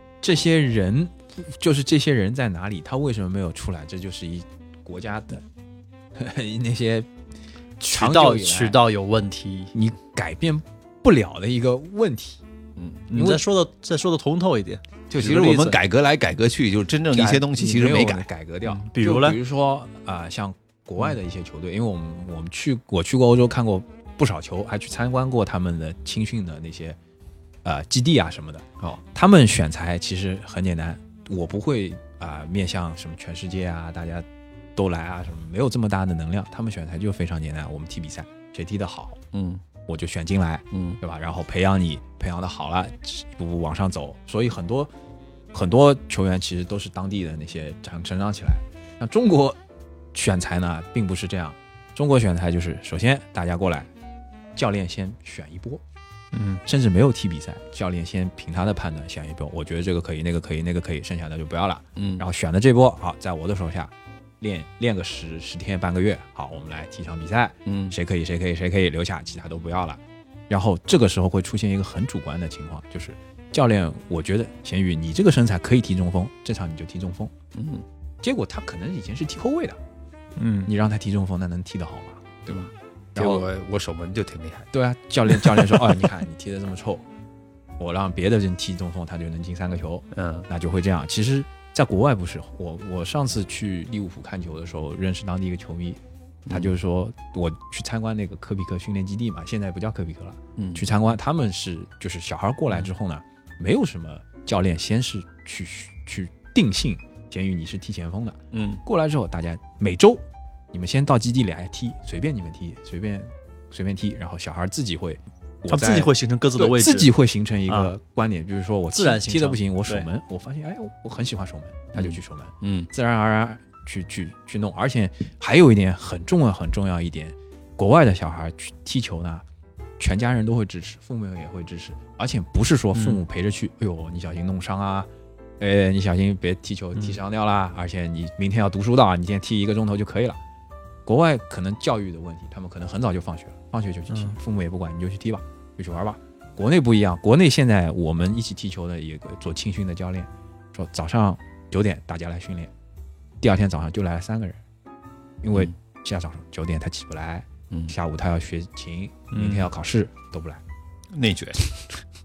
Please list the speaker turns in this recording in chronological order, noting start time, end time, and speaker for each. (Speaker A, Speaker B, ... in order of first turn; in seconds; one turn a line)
Speaker A: 0.2-5.5
Speaker A: 6.2-7.1
Speaker A: 7.8-8.8
Speaker B: 7.9-9.7
Speaker A: 9.7-12.4
Speaker C: 12.8-13.1
Speaker B: 13.1-15.8
Speaker A: 13.1-13.4
Speaker C: 15.1-18.2
Speaker A: 17.1-27.0
Speaker B: 18.7-19.4
Speaker A: 27.6-39.2
Speaker C: 39.3-39.6
Speaker A: 39.9-44.9
Speaker C: 40.7-41.0
Speaker A: 45.5-49.6
Speaker A: 50.1-53.9
Speaker A: 54.5-55.8
Speaker B: 56.3-56.6
Speaker A: 56.6-77.3
Speaker C: 62.0-62.2
Speaker C: 67.7-68.0
Speaker C: 77.5-77.8
Speaker A: 78.2-79.8
Speaker B: 80.4-80.7
Speaker A: 80.7-82.7
Speaker C: 82.5-84.7
Speaker A: 84.7-87.0
Speaker A: 87.8-129.4
Speaker C: 90.1-90.5
Speaker C: 96.5-96.7
Speaker C: 100.6-100.9
Speaker C: 108.5-108.8
Speaker B: 115.7-117.1
Speaker B: 117.7-117.9
Speaker B: 118.9-120.1
Speaker C: 122.0-122.9
Speaker A: 130.0-140.4
Speaker B: 132.9-133.2
Speaker A: 141.1-152.7
Speaker B: 144.1-144.4
Speaker A: 153.4-154.6
Speaker A: 155.4-160.6
Speaker B: 159.3-159.7
Speaker C: 161.1-161.8